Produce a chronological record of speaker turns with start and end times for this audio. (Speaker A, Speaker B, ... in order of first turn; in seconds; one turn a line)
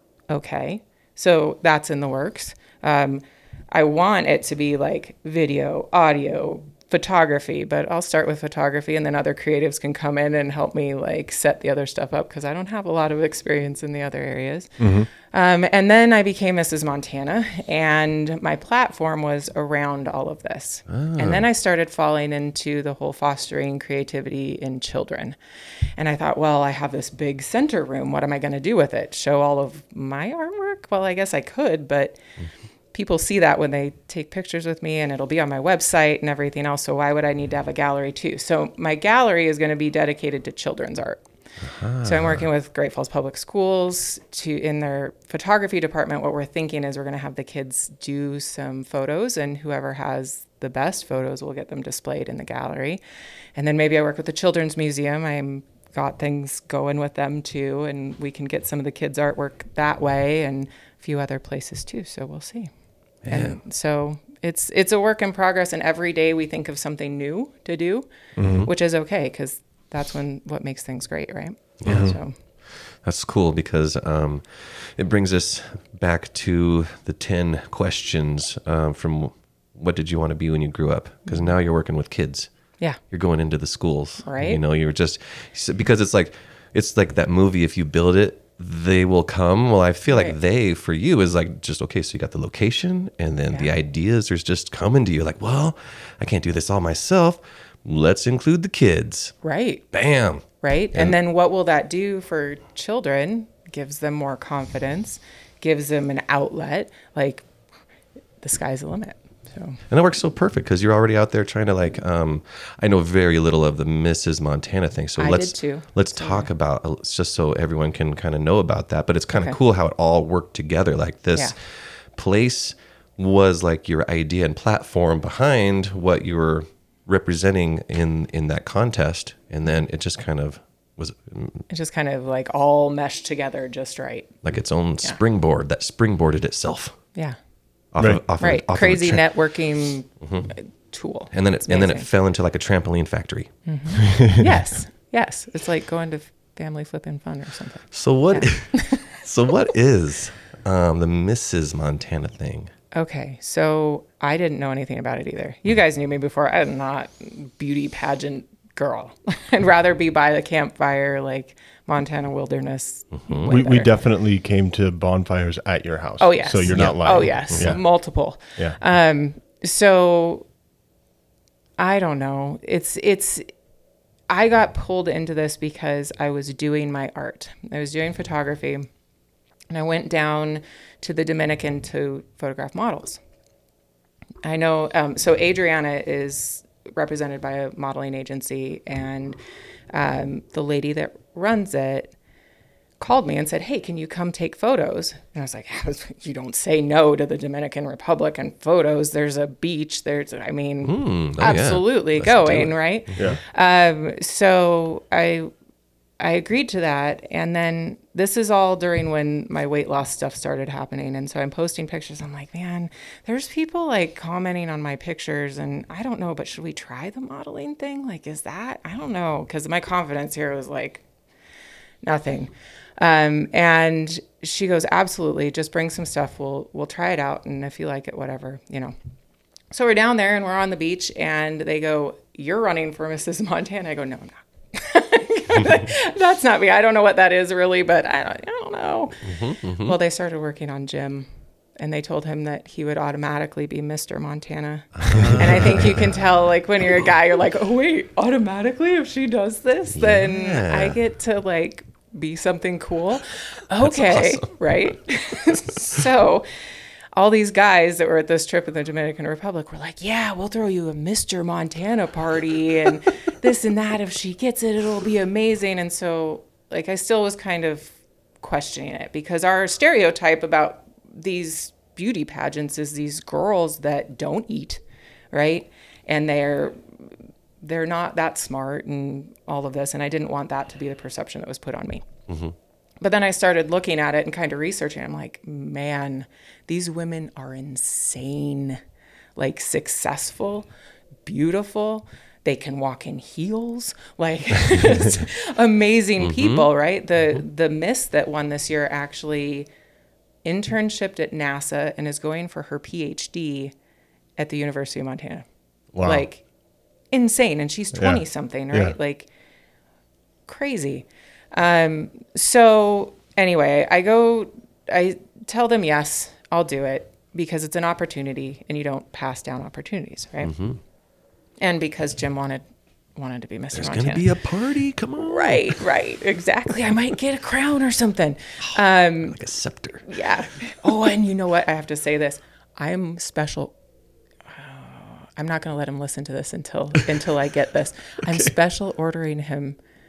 Speaker A: 0.3-25.4
Speaker B: 14.8-15.1
Speaker C: 20.9-21.4
Speaker A: 26.0-32.2
Speaker A: 32.9-41.2
Speaker C: 41.6-42.5
Speaker A: 42.0-53.0
Speaker A: 53.6-62.7
Speaker C: 63.2-63.6
Speaker A: 63.3-68.1
Speaker B: 68.4-68.7
Speaker A: 68.7-72.3
Speaker C: 71.8-72.2
Speaker B: 71.8-72.2
Speaker C: 73.0-82.5
Speaker A: 81.3-81.5
Speaker C: 83.1-99.3
Speaker A: 84.2-84.6
Speaker A: 90.1-90.4
Speaker A: 99.4-99.8
Speaker C: 99.9-101.2
Speaker A: 100.6-107.5
Speaker A: 108.4-109.8
Speaker C: 109.9-121.5
Speaker A: 115.2-116.5
Speaker C: 122.1-131.7
Speaker A: 131.7-134.3
Speaker C: 134.4-137.0
Speaker C: 137.9-139.4
Speaker A: 138.4-142.1
Speaker C: 140.2-140.5
Speaker C: 141.3-143.5
Speaker A: 143.7-149.1
Speaker B: 144.1-144.5
Speaker C: 147.9-152.7
Speaker A: 152.9-163.9
Speaker C: 163.1-163.5
Speaker B: 163.5-167.8
Speaker A: 166.2-170.5
Speaker C: 166.7-167.8
Speaker A: 171.8-173.5
Speaker A: 174.3-178.9
Speaker A: 179.7-183.2
Speaker A: 184.4-189.4
Speaker A: 189.9-192.1
Speaker A: 193.0-205.5
Speaker C: 200.8-203.4
Speaker A: 206.2-221.0
Speaker A: 222.0-228.9
Speaker A: 229.7-241.3
Speaker C: 239.2-240.0
Speaker A: 241.8-256.5
Speaker C: 245.0-246.1
Speaker C: 249.9-251.0
Speaker C: 253.8-254.5
Speaker A: 257.1-274.8
Speaker A: 275.3-277.1
Speaker A: 277.6-282.1
Speaker C: 282.3-282.5
Speaker A: 283.0-288.8
Speaker A: 289.4-290.7
Speaker A: 291.2-299.7
Speaker C: 296.2-296.7
Speaker A: 300.4-303.7
Speaker A: 304.4-305.4
Speaker B: 305.9-306.3
Speaker A: 306.0-306.4
Speaker A: 307.1-309.3
Speaker B: 307.9-309.0
Speaker A: 310.5-320.5
Speaker C: 320.4-320.8
Speaker A: 321.6-322.6
Speaker A: 323.2-324.3
Speaker C: 323.7-325.8
Speaker A: 325.2-329.4
Speaker C: 328.7-330.2
Speaker A: 330.1-333.7
Speaker A: 334.5-339.8